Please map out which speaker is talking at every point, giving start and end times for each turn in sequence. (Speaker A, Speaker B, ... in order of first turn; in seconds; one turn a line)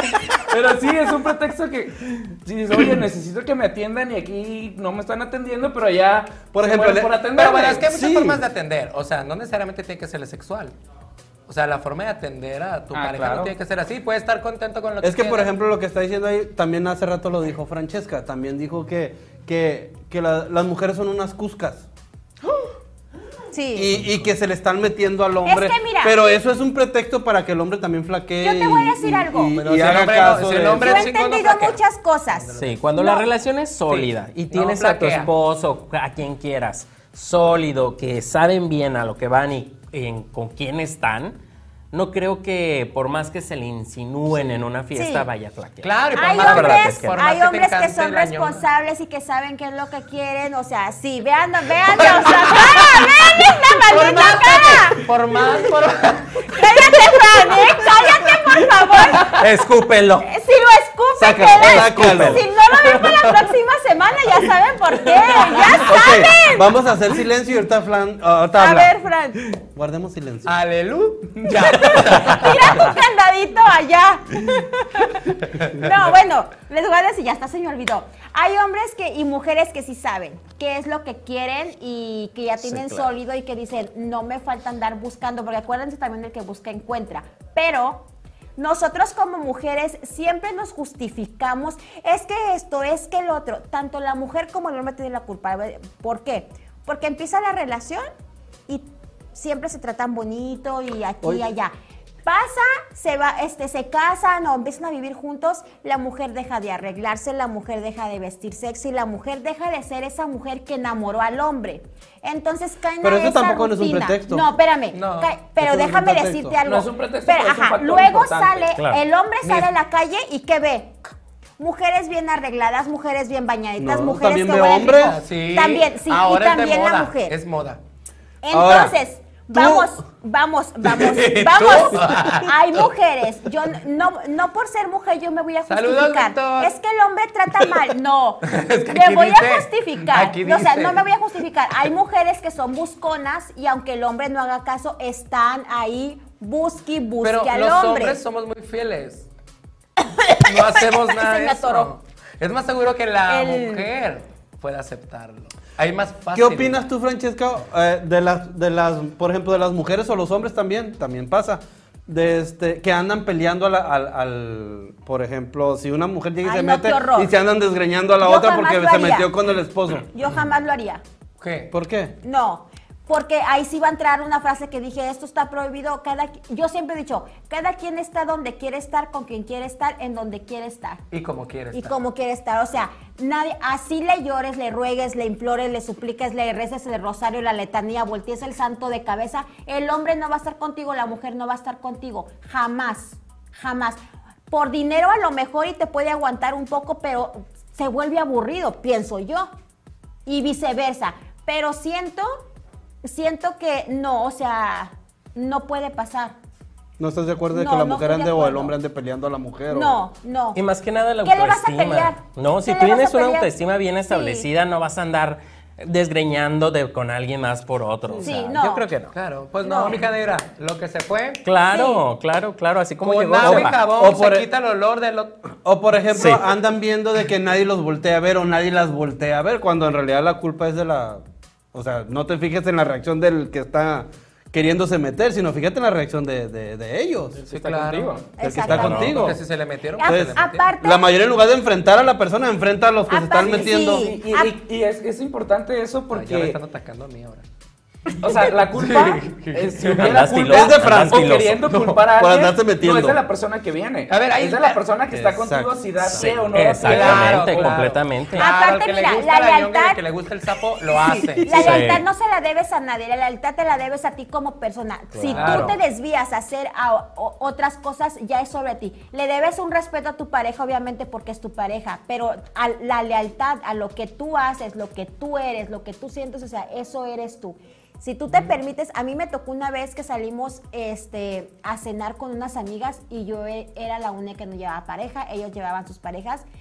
Speaker A: 0.3-7.9
Speaker B: 6.5-7.2
Speaker C: 7.3-10.7
Speaker B: 7.8-8.4
Speaker C: 11.5-15.5
Speaker A: 12.9-13.5
Speaker B: 15.0-21.9
Speaker D: 23.5-23.9
Speaker B: 23.7-31.1
Speaker D: 25.4-26.4
Speaker D: 28.4-29.6
Speaker C: 29.6-32.8
Speaker D: 30.7-33.3
Speaker E: 32.5-41.4
Speaker C: 33.9-35.3
Speaker E: 41.9-47.2
Speaker D: 44.9-45.3
Speaker C: 45.8-48.6
Speaker D: 46.1-55.0
Speaker C: 51.9-53.1
Speaker C: 53.8-56.6
Speaker D: 56.5-59.4
Speaker E: 59.2-60.2
Speaker D: 60.2-66.7
Speaker B: 61.2-62.4
Speaker E: 62.1-62.3
Speaker B: 65.8-68.9
Speaker D: 68.6-69.5
Speaker B: 69.5-70.5
Speaker C: 70.4-72.8
Speaker A: 71.4-72.1
Speaker D: 71.8-88.0
Speaker C: 75.4-75.9
Speaker E: 82.6-83.1
Speaker D: 88.6-98.1
Speaker D: 98.7-101.7
Speaker D: 102.2-121.0
Speaker B: 113.0-114.5
Speaker C: 114.9-115.3
Speaker B: 115.6-116.6
Speaker A: 116.6-118.7
Speaker E: 118.8-119.0
Speaker C: 119.4-119.7
Speaker D: 121.6-127.3
Speaker B: 123.8-125.2
Speaker C: 124.9-127.8
Speaker D: 128.4-148.2
Speaker B: 128.5-128.9
Speaker B: 129.5-129.9
Speaker C: 130.9-132.6
Speaker C: 135.7-136.7
Speaker C: 138.4-141.1
Speaker C: 147.2-149.3
Speaker D: 150.0-151.9
Speaker C: 150.4-156.8
Speaker D: 153.3-153.9
Speaker B: 156.3-170.1
Speaker D: 166.4-167.3
Speaker D: 168.2-169.3
Speaker D: 170.1-171.0
Speaker C: 171.4-171.7
Speaker B: 171.7-172.1
Speaker D: 172.2-181.0
Speaker C: 181.1-181.9
Speaker D: 181.7-194.0
Speaker D: 194.5-199.5
Speaker D: 200.2-202.4
Speaker D: 203.0-206.3
Speaker B: 207.0-210.0
Speaker D: 207.5-208.7
Speaker D: 209.7-210.6
Speaker E: 210.5-219.1
Speaker D: 211.2-213.5
Speaker D: 214.1-214.5
Speaker D: 218.2-218.9
Speaker C: 219.1-221.4
Speaker D: 219.6-220.0
Speaker E: 221.4-223.8
Speaker D: 221.7-222.0
Speaker C: 223.0-225.4
Speaker B: 223.4-224.5
Speaker B: 225.6-237.4
Speaker E: 226.2-226.4
Speaker A: 237.4-238.3
Speaker C: 237.5-238.2
Speaker D: 238.4-239.2
Speaker B: 238.4-239.4
Speaker E: 238.6-239.2
Speaker C: 238.8-240.7
Speaker D: 240.0-241.1
Speaker B: 240.0-244.1
Speaker D: 243.1-244.5
Speaker A: 243.4-246.6
Speaker C: 246.1-247.4
Speaker A: 248.1-257.9
Speaker C: 248.7-250.2
Speaker E: 249.9-251.7
Speaker B: 250.4-253.2
Speaker C: 254.1-254.8
Speaker B: 255.1-256.3
Speaker E: 256.0-258.5
Speaker C: 256.8-261.8
Speaker D: 258.3-260.0
Speaker D: 261.1-286.4
Speaker E: 261.5-262.0
Speaker E: 265.1-265.8
Speaker C: 265.4-265.8